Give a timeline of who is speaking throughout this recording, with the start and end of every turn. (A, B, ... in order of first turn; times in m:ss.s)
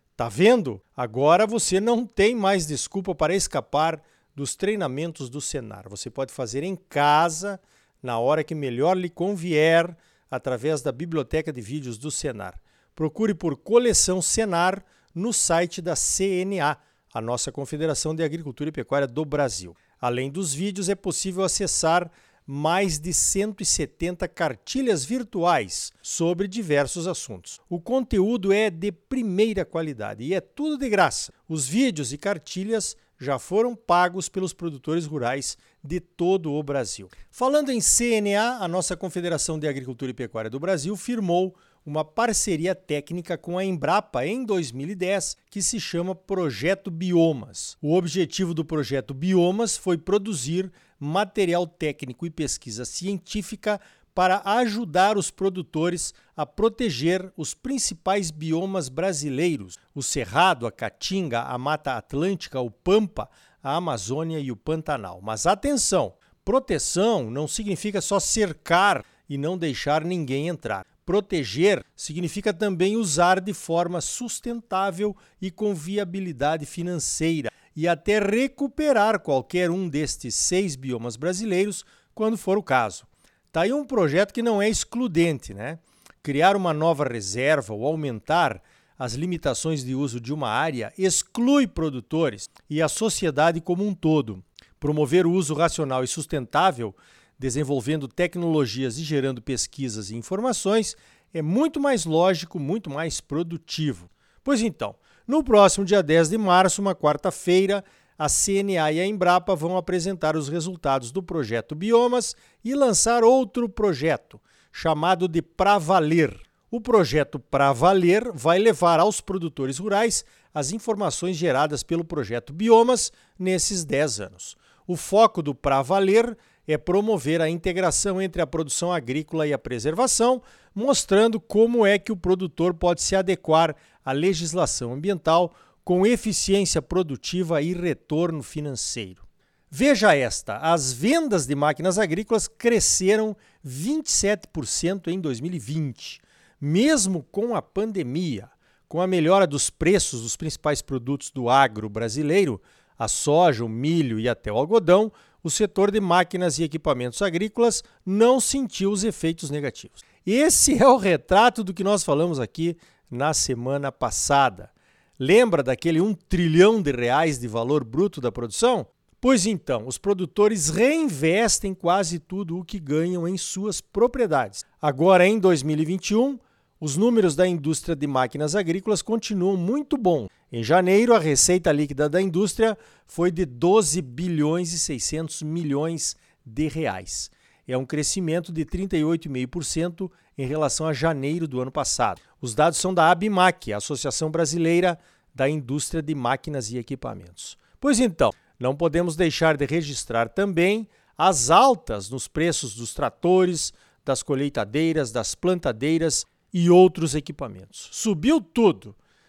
0:00.2-3:29.0 A